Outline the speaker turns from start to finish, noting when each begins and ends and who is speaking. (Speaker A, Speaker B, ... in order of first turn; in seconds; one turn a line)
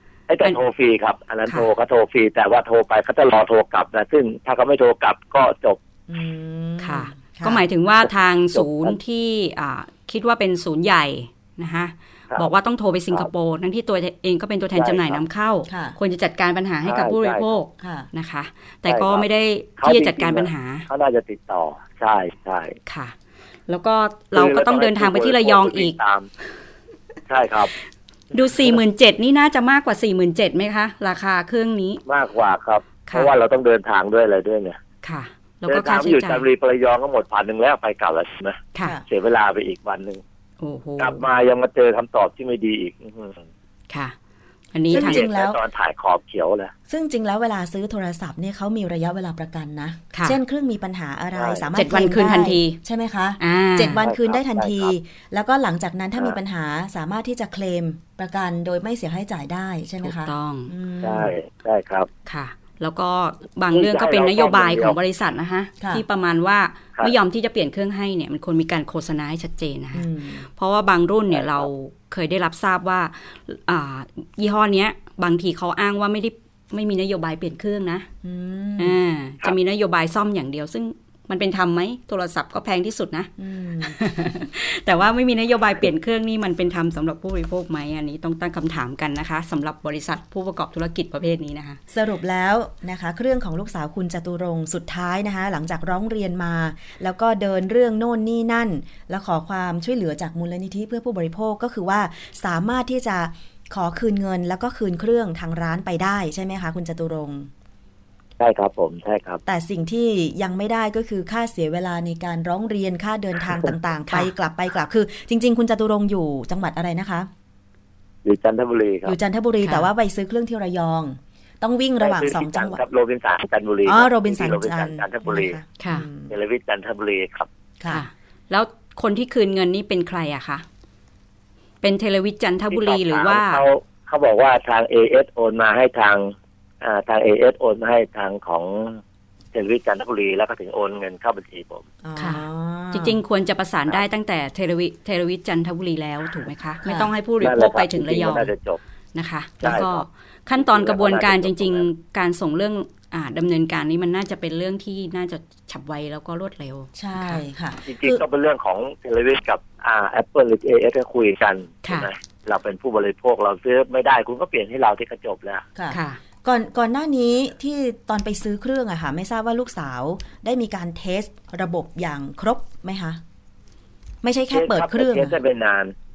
Speaker A: 0.3-5.8
Speaker B: 6.1-7.6
Speaker C: 6.8-20.9
Speaker A: 8.5-8.9
Speaker A: 14.8-15.2
Speaker B: 15.7-16.0
Speaker A: 16.9-17.5
Speaker B: 17.8-18.1
Speaker A: 18.9-19.2
Speaker A: 19.8-22.8
Speaker C: 22.9-23.1
Speaker C: 23.7-25.9
Speaker A: 24.3-26.3
Speaker A: 27.3-27.7
Speaker C: 28.3-32.0
Speaker A: 32.0-34.8
Speaker C: 35.0-36.5
Speaker A: 35.7-40.2
Speaker C: 40.6-41.2
Speaker A: 41.0-43.4
Speaker C: 43.9-44.1
Speaker C: 44.7-45.2
Speaker B: 44.9-45.6
Speaker A: 44.9-46.7
Speaker B: 46.9-61.3
Speaker C: 50.1-50.4
Speaker A: 51.4-51.7
Speaker C: 51.8-52.8
Speaker C: 53.4-54.0
Speaker A: 54.0-54.9
Speaker C: 60.0-60.7
Speaker A: 61.0-62.1
Speaker C: 62.2-78.1
Speaker A: 63.7-65.0
Speaker B: 69.9-70.5
Speaker A: 71.3-71.7
Speaker B: 78.2-79.0
Speaker C: 78.8-83.3
Speaker B: 83.4-84.0
Speaker C: 83.8-91.8
Speaker B: 91.9-107.5
Speaker A: 108.4-109.4
Speaker B: 109.5-117.3
Speaker A: 118.2-119.2
Speaker B: 119.0-122.8
Speaker C: 119.6-119.9
Speaker A: 122.0-125.6
Speaker B: 123.9-126.3
Speaker C: 125.8-126.1
Speaker A: 126.3-127.5
Speaker C: 127.9-130.6
Speaker C: 131.8-133.6
Speaker A: 132.7-139.0
Speaker A: 139.5-141.9
Speaker B: 142.0-143.2
Speaker C: 142.2-148.5
Speaker B: 146.8-147.1
Speaker A: 147.4-148.8
Speaker C: 149.1-157.4
Speaker A: 149.6-150.0
Speaker A: 150.6-151.9
Speaker B: 156.9-158.2
Speaker A: 157.9-165.7
Speaker B: 165.8-173.2
Speaker C: 165.9-166.2
Speaker B: 174.2-175.4
Speaker A: 174.5-175.9